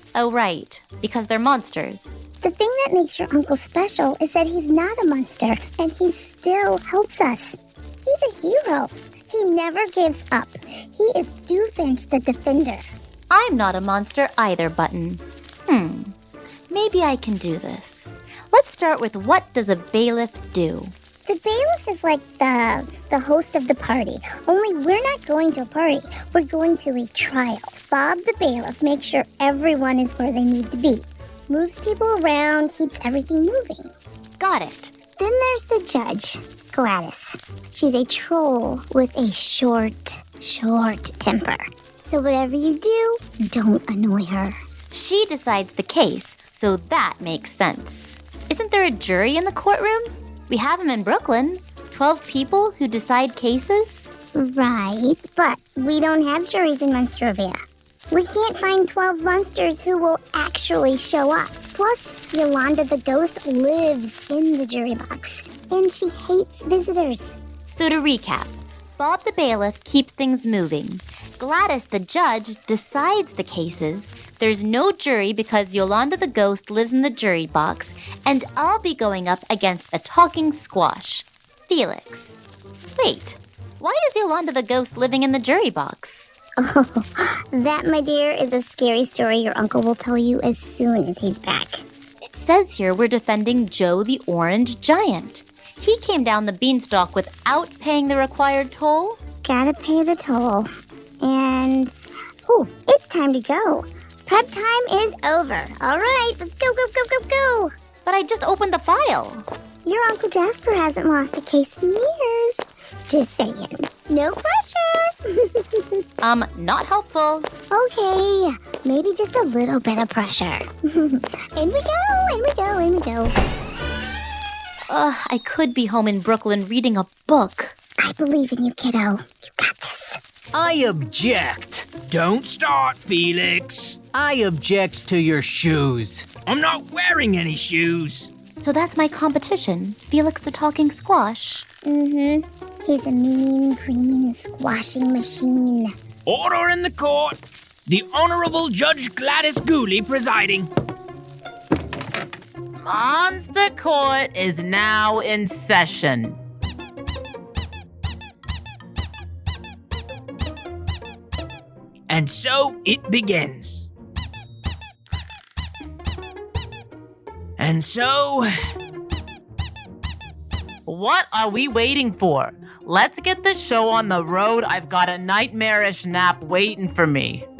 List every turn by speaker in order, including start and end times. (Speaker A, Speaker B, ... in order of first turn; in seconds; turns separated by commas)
Speaker A: 0.1-2.2, Speaker B: 2.4-12.8, Speaker A: 13.3-16.1, Speaker A: 16.7-20.9, Speaker B: 21.2-33.9, Speaker A: 34.4-34.9, Speaker B: 35.2-44.6, Speaker A: 44.9-54.1, Speaker B: 54.3-57.6, Speaker B: 58.1-67.3, Speaker A: 67.7-82.4, Speaker A: 83.0-86.3, Speaker B: 86.6-91.8, Speaker A: 92.2-99.2, Speaker B: 99.4-100.7, Speaker B: 101.2-101.9, Speaker B: 102.5-107.7, Speaker A: 108.0-109.4, Speaker B: 109.8-115.8, Speaker A: 116.2-117.5, Speaker B: 117.7-123.3, Speaker A: 124.9-127.7, Speaker B: 128.0-130.2, Speaker C: 130.5-132.0, Speaker D: 132.0-134.0, Speaker C: 134.1-136.3, Speaker D: 136.4-138.3, Speaker A: 138.6-141.7, Speaker B: 141.8-145.9, Speaker D: 146.2-150.7, Speaker E: 152.8-156.4, Speaker D: 162.1-163.9, Speaker D: 167.6-168.5, Speaker E: 170.9-177.4